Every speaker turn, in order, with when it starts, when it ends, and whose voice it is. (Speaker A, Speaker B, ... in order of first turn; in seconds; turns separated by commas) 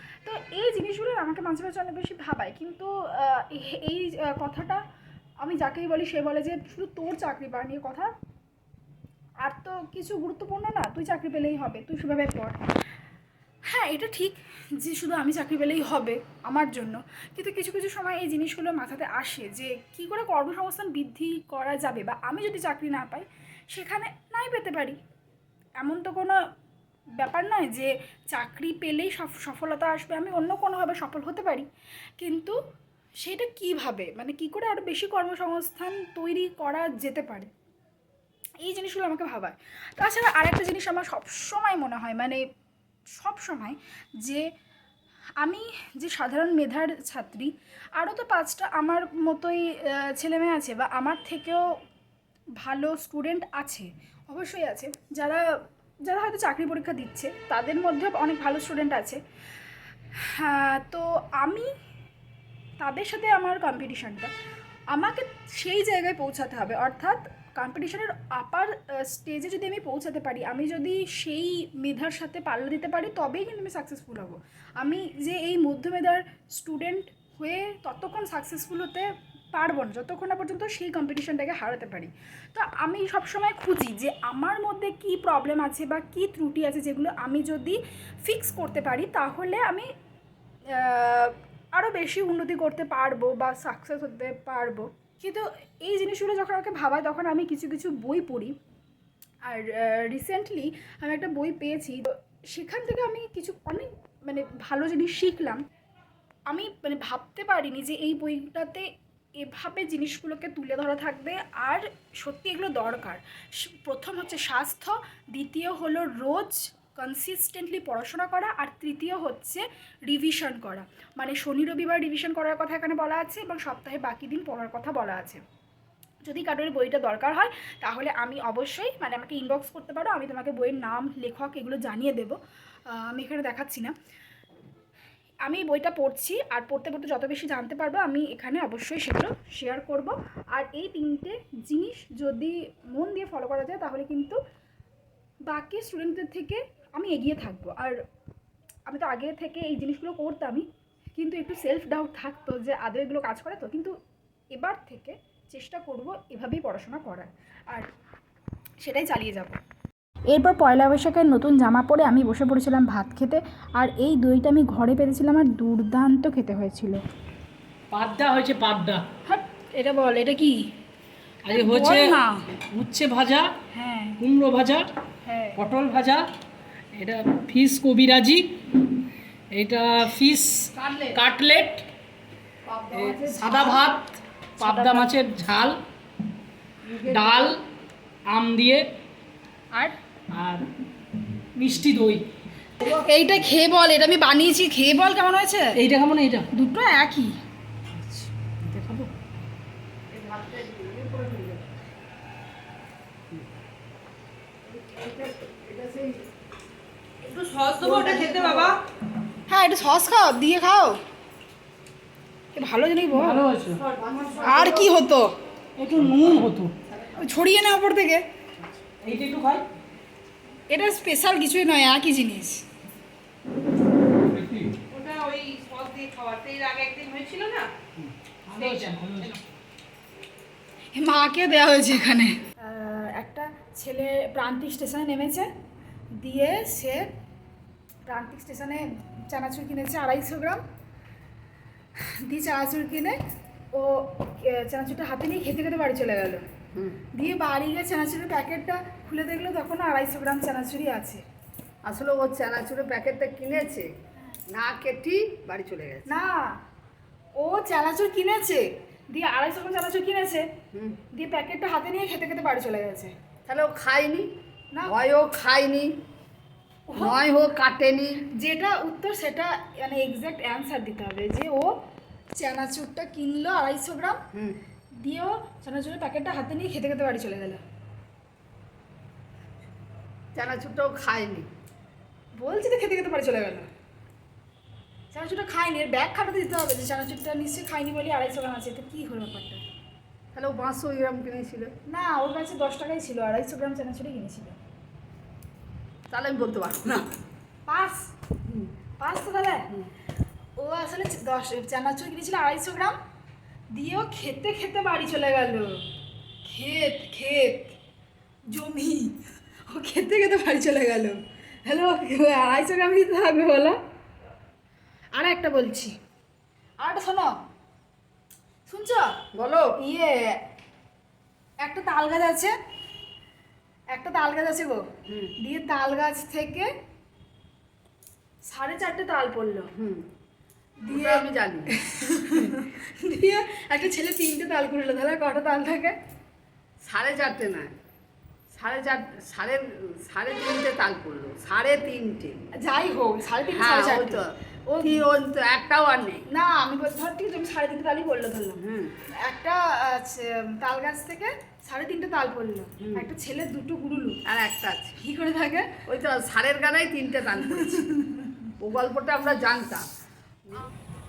Speaker A: 0.2-4.8, Speaker A: 5.4-8.1, Speaker A: 9.4-12.6, Speaker A: 13.7-25.0, Speaker A: 25.8-26.4, Speaker A: 27.2-31.7, Speaker A: 32.2-32.6, Speaker A: 33.2-37.5, Speaker A: 38.6-42.4, Speaker A: 43.1-44.5, Speaker A: 45.4-51.8, Speaker A: 52.6-55.5, Speaker A: 56.0-59.2, Speaker A: 60.2-61.7, Speaker A: 62.8-64.3, Speaker A: 64.9-89.9, Speaker A: 90.7-98.6, Speaker A: 99.5-105.6, Speaker A: 106.5-108.9, Speaker A: 109.4-125.4, Speaker A: 126.2-132.4, Speaker A: 132.9-133.9, Speaker A: 135.4-144.4, Speaker A: 145.4-148.0, Speaker A: 148.9-153.9, Speaker A: 154.5-157.9, Speaker A: 158.8-159.6, Speaker A: 160.3-167.0, Speaker B: 167.9-169.1, Speaker A: 169.2-170.6, Speaker B: 171.4-173.5, Speaker A: 171.5-172.6, Speaker A: 173.7-174.2, Speaker B: 174.2-174.9, Speaker A: 175.2-175.6, Speaker B: 175.6-176.2, Speaker B: 176.9-178.7, Speaker B: 179.5-181.9, Speaker A: 180.7-181.2, Speaker C: 182.7-183.9, Speaker B: 182.9-185.8, Speaker A: 184.6-185.1, Speaker C: 186.9-187.5, Speaker B: 187.0-187.6, Speaker B: 188.3-188.8, Speaker B: 190.3-190.7, Speaker B: 191.6-192.2, Speaker A: 192.8-195.8, Speaker B: 195.8-196.5, Speaker A: 196.5-197.3, Speaker B: 197.9-199.1, Speaker C: 200.1-201.6, Speaker C: 204.7-206.2, Speaker D: 207.2-208.8, Speaker C: 207.8-208.8, Speaker A: 209.5-211.0, Speaker A: 212.5-213.4, Speaker B: 213.1-213.8, Speaker C: 213.7-214.9, Speaker A: 214.4-215.3, Speaker B: 215.8-216.8, Speaker A: 217.1-218.2, Speaker B: 218.8-219.7, Speaker A: 220.7-222.6, Speaker B: 224.3-224.8, Speaker D: 224.9-227.7, Speaker B: 228.1-229.4, Speaker D: 228.6-228.9, Speaker A: 230.9-235.5, Speaker A: 236.2-237.1, Speaker A: 238.1-240.6, Speaker A: 242.1-243.2, Speaker A: 243.7-246.4, Speaker C: 246.7-247.0, Speaker A: 247.2-251.2, Speaker C: 251.8-253.9, Speaker C: 254.5-256.1, Speaker A: 256.1-256.6, Speaker A: 257.4-260.5, Speaker A: 261.1-263.1, Speaker C: 263.5-264.3, Speaker C: 264.9-265.9, Speaker A: 266.9-267.2, Speaker C: 266.9-268.2, Speaker A: 268.4-271.7, Speaker A: 272.4-274.2, Speaker A: 275.0-277.6, Speaker C: 280.3-281.5, Speaker A: 282.4-283.7, Speaker A: 285.1-289.6, Speaker C: 290.3-291.7, Speaker A: 291.9-294.6, Speaker C: 296.1-297.1, Speaker A: 297.7-298.1, Speaker A: 299.0-299.7, Speaker A: 300.6-303.0, Speaker A: 303.7-305.8, Speaker A: 306.4-307.8, Speaker A: 308.5-309.2, Speaker A: 309.7-313.8, Speaker A: 315.1-315.9, Speaker A: 316.8-317.3, Speaker A: 318.7-319.1, Speaker C: 319.3-319.7, Speaker A: 319.8-320.4, Speaker A: 321.6-322.6, Speaker A: 323.9-326.7, Speaker C: 325.1-325.3, Speaker A: 328.4-329.7, Speaker C: 329.8-330.1, Speaker A: 330.8-336.0, Speaker C: 330.9-331.8, Speaker C: 336.8-337.7, Speaker C: 338.5-342.4, Speaker A: 342.6-345.1, Speaker C: 343.5-344.3, Speaker C: 344.8-346.2, Speaker A: 346.3-348.6, Speaker C: 348.6-348.9, Speaker A: 349.2-354.2, Speaker C: 352.8-353.1, Speaker C: 354.2-355.0, Speaker A: 355.0-355.8, Speaker C: 355.9-357.8, Speaker A: 357.6-358.5, Speaker C: 358.6-359.9